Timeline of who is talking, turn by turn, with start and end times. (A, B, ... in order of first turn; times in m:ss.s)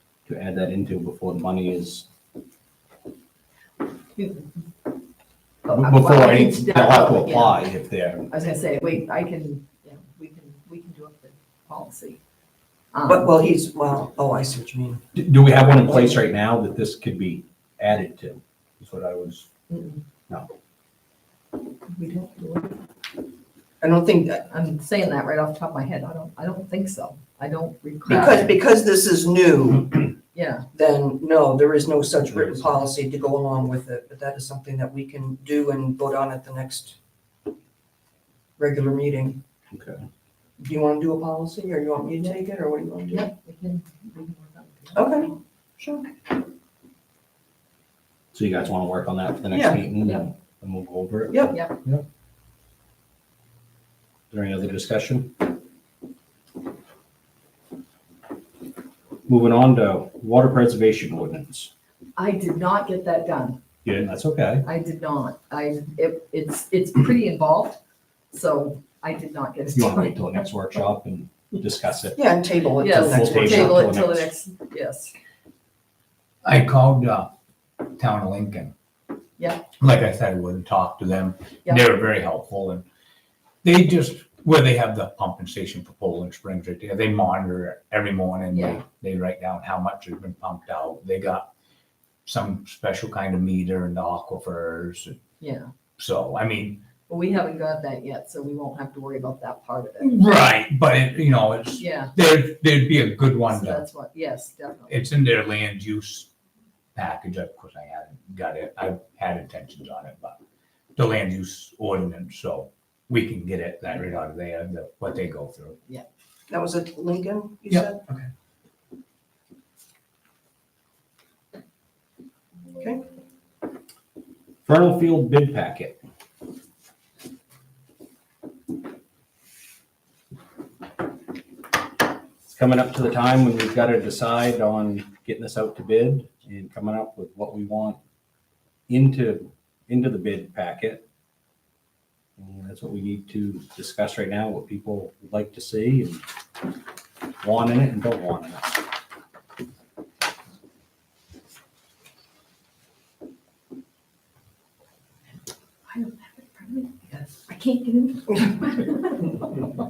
0:00.2-0:02.1 A
0:04.1-0:04.6 B
0:05.6-0:07.6 B
0:05.7-0:08.3 A
0:08.3-0:12.2 B
0:12.9-0:13.3 B
0:13.1-0:15.0 C
0:15.1-0:19.5 A
0:21.9-0:22.7 C
0:23.8-0:24.4 C
0:24.4-0:28.6 B
0:28.1-0:30.1 C
0:30.3-0:30.6 B
0:30.7-0:37.0 C
0:38.6-0:39.4 C
0:39.7-0:40.0 A
0:40.6-0:43.3 C
0:43.1-0:45.4 B
0:44.9-0:46.1 C
0:48.3-0:52.0 A
0:49.5-0:49.8 C
0:51.3-0:51.6 C
0:54.3-0:55.3 A
0:59.3-1:01.7 A
1:02.2-1:03.6 B
1:03.8-1:04.7 A
1:04.6-1:07.8 B
1:08.3-1:10.4 B
1:09.7-1:12.2 A
1:12.2-1:13.9 C
1:12.8-1:15.1 B
1:12.9-1:14.3 A
1:16.4-1:17.3 D
1:17.8-1:18.7 D
1:19.4-1:19.7 B
1:19.8-1:22.8 D
1:23.6-1:31.5 D
1:28.5-1:28.8 B
1:32.2-1:35.2 D
1:35.4-1:35.7 B
1:36.0-1:36.9 D
1:37.1-1:40.3 B
1:40.0-1:43.8 D
1:41.8-1:42.2 B
1:43.4-1:45.1 B
1:44.9-1:46.3 D
1:46.9-1:50.4 D
1:51.0-1:55.8 D
1:56.5-1:58.0 C
1:57.7-1:58.2 D
2:02.7-2:03.0 C
2:04.6-2:06.0 A
2:12.5-2:18.0 A
2:18.9-2:21.0 A
2:22.4-2:26.2 A
2:27.4-2:28.8 A
2:35.9-2:39.7 B